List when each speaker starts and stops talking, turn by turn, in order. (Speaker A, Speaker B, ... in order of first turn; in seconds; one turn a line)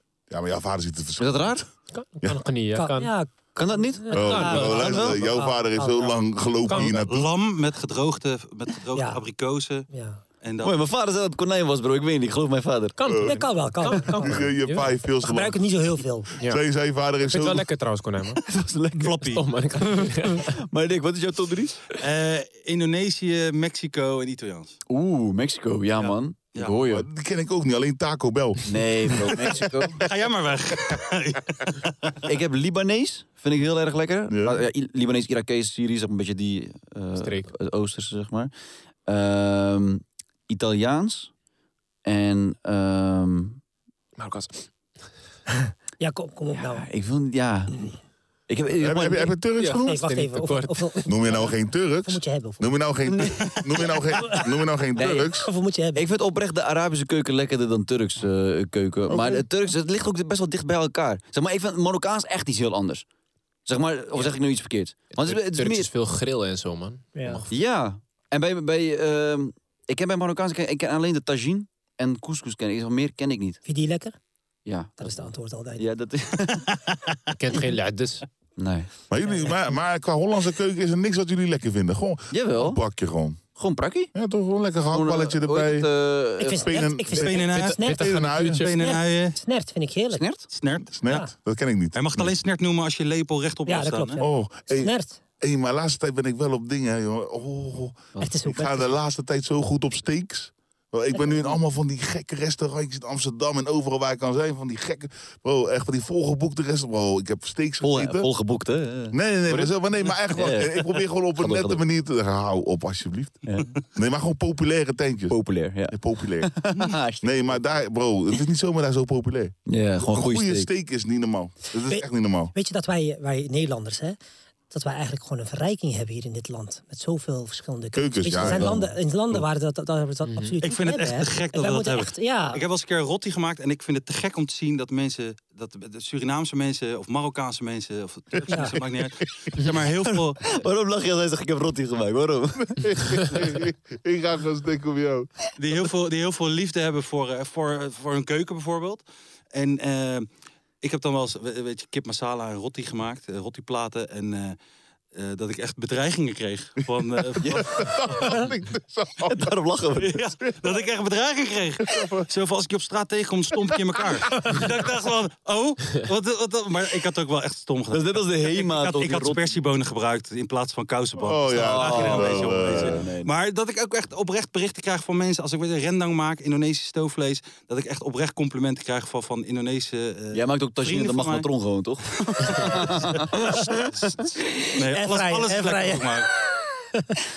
Speaker A: 0.3-1.6
Speaker B: 1.2-1.7
Speaker C: 1.9-3.1
Speaker D: 2.8-6.1
Speaker B: 3.6-5.2
Speaker A: 4.1-7.3
Speaker C: 4.2-5.0
Speaker C: 6.7-7.0
Speaker E: 6.8-9.9
Speaker D: 8.9-9.2
Speaker D: 9.9-10.2
Speaker E: 10.4-10.8
Speaker B: 10.6-13.0
Speaker C: 13.0-14.9
Speaker A: 13.1-13.3
Speaker D: 13.2-14.2
Speaker A: 14.1-17.7
Speaker D: 15.2-16.3
Speaker C: 17.2-18.4
Speaker B: 18.5-19.2
Speaker E: 19.0-19.4
Speaker C: 19.2-20.5
Speaker B: 20.5-22.0
Speaker E: 22.0-24.8
Speaker B: 24.9-27.1
Speaker E: 26.0-26.8
Speaker A: 26.8-29.9
Speaker B: 28.6-30.0
Speaker E: 29.9-32.2
Speaker B: 32.3-38.5
Speaker A: 34.3-34.6
Speaker C: 37.2-37.5
Speaker B: 39.1-41.3
Speaker B: 42.0-43.6
Speaker C: 44.2-44.7
Speaker D: 46.0-46.9
Speaker B: 46.5-47.9
Speaker B: 48.5-49.4
Speaker A: 48.8-50.0
Speaker C: 49.6-51.5
Speaker D: 49.8-51.1
Speaker A: 51.1-55.5
Speaker D: 52.1-52.7
Speaker B: 55.0-55.3
Speaker D: 55.2-56.0
Speaker B: 56.0-63.1
Speaker A: 59.1-59.4
Speaker B: 63.7-65.9
Speaker C: 65.1-67.5
Speaker D: 67.2-67.4
Speaker B: 67.5-73.6
Speaker D: 73.7-74.2
Speaker B: 74.7-76.7
Speaker D: 75.0-75.9
Speaker E: 76.5-77.3
Speaker C: 77.3-78.3
Speaker B: 78.6-78.9
Speaker A: 79.1-83.4
Speaker B: 82.3-82.8
Speaker B: 83.6-84.1
Speaker A: 84.1-85.9
Speaker B: 84.9-86.7
Speaker D: 86.4-88.0
Speaker A: 86.5-88.7
Speaker E: 87.1-87.8
Speaker C: 87.5-88.8
Speaker E: 88.5-89.4
Speaker D: 88.8-90.3
Speaker B: 90.1-90.5
Speaker E: 90.5-91.0
Speaker A: 90.9-92.3
Speaker D: 91.1-91.3
Speaker E: 91.9-94.2
Speaker D: 93.7-95.2
Speaker A: 94.2-108.3
Speaker D: 98.2-98.9
Speaker B: 107.8-111.8
Speaker A: 109.1-115.4
Speaker B: 115.3-117.6
Speaker A: 115.9-116.6
Speaker A: 117.2-122.5
Speaker B: 119.7-120.7
Speaker D: 121.9-124.2
Speaker D: 124.7-132.6
Speaker A: 127.9-129.4
Speaker C: 130.3-130.6
Speaker E: 130.6-140.4
Speaker B: 140.1-142.8
Speaker A: 142.7-145.3
Speaker E: 145.6-150.3
Speaker E: 150.8-154.6
Speaker E: 155.1-157.6
Speaker A: 157.2-159.6
Speaker B: 157.4-157.8
Speaker B: 159.3-160.2
Speaker E: 160.0-181.5
Speaker A: 160.4-160.8
Speaker A: 161.8-162.3
Speaker A: 164.0-164.6
Speaker B: 167.9-169.6
Speaker A: 171.2-173.1
Speaker B: 171.5-173.3
Speaker B: 180.3-184.2
Speaker E: 182.4-184.2
Speaker E: 184.8-186.3
Speaker D: 184.9-186.1